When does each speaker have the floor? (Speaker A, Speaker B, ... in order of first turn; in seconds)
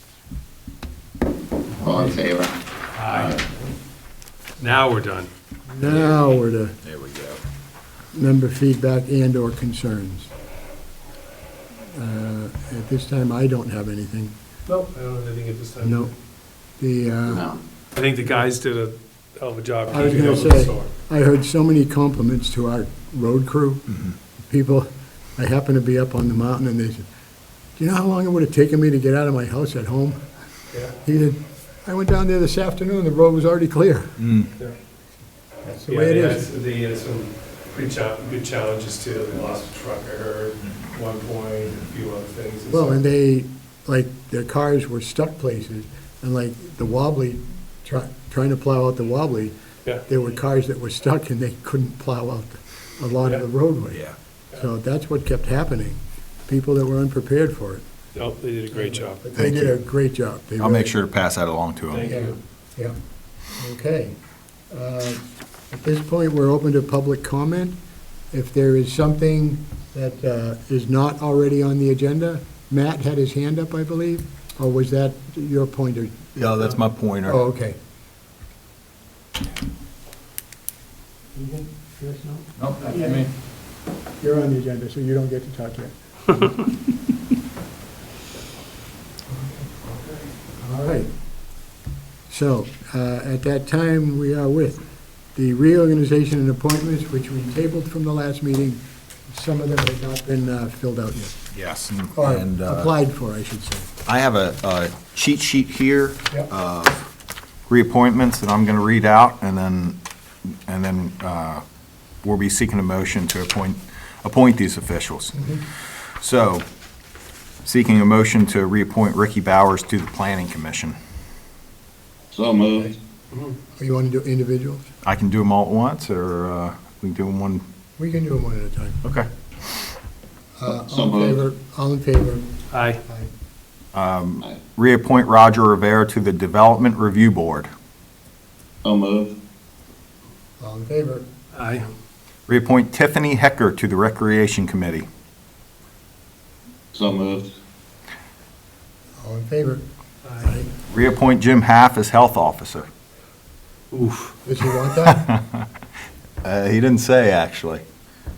Speaker A: 1.8-2.5, 3.1-3.4, 17.3-17.6, 122.3-123.0, 130.7-131.4, 138.8-139.3, 146.9-147.5
Speaker B: 2.9-3.4, 4.6-5.3, 14.7-16.1, 17.9-20.9, 35.9-43.0, 58.1-59.2, 61.9-62.4, 132.7-133.0, 141.5-141.8, 150.2-150.5, 153.9-154.3
Speaker C: 5.7-6.8, 8.1-10.3, 11.9-14.3, 15.8-16.1, 16.8-17.4, 19.9-23.8, 24.4-27.1, 27.8-30.2, 31.0-34.2, 35.6-36.5, 42.7-49.5, 50.1-57.8, 58.7-60.9, 62.0-62.9, 63.5-64.2, 64.7-67.8, 68.3-76.2, 77.2-77.8, 81.3-83.3, 84.2-86.6, 89.3-89.9, 90.5-91.1, 92.3-94.8, 95.3-101.4, 102.1-103.9, 115.4-115.6, 123.8-124.8, 128.0-129.0, 130.6-132.5, 133.0-133.3, 140.6-141.3, 149.2-149.8, 150.4-150.7, 154.4-155.2
Speaker D: 5.8-6.2, 6.8-7.4, 23.9-24.1, 34.2-34.5, 59.3-59.7, 60.6-62.1, 76.3-77.4, 82.6-83.3, 101.5-102.9, 104.0-107.1, 107.7-110.0, 110.7-111.6, 112.2-116.6, 117.6-121.0, 125.0-127.6, 129.0-129.3, 133.9-137.7, 142.5-145.1, 150.9-152.9, 155.1-155.6, 156.4-157.8